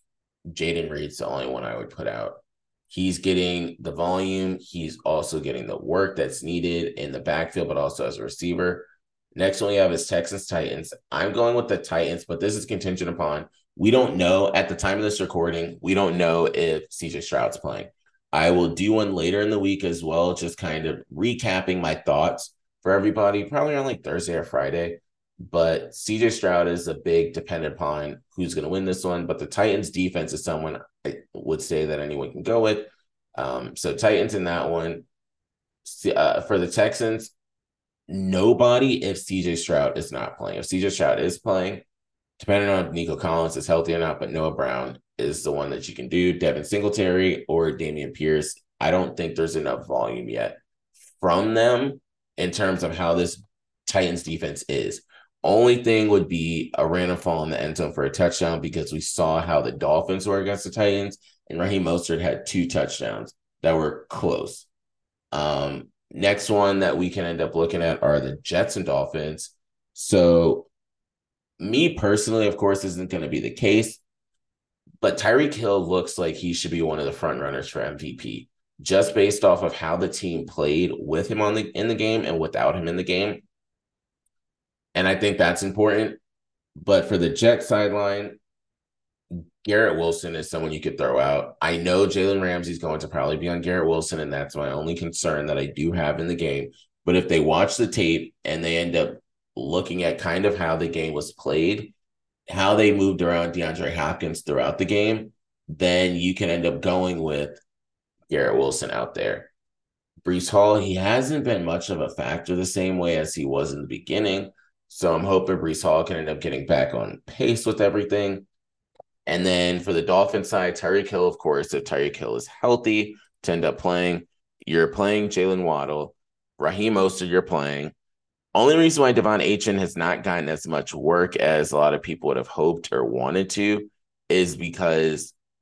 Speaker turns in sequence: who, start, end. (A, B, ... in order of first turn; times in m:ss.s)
0:00.5-0:35.0 A
0:35.8-0:37.3 A
0:38.1-0:41.8 A
0:42.4-0:50.6 A
0:51.2-1:04.7 A
1:05.3-1:10.7 A
1:11.6-1:14.0 A
1:15.0-1:23.4 A
1:24.9-1:26.2 A
1:26.8-1:28.4 A
1:29.6-1:41.9 A
1:42.5-1:47.6 A
1:48.3-1:49.5 A
1:50.2-1:58.5 A
1:59.2-2:07.9 A
2:08.5-2:15.3 A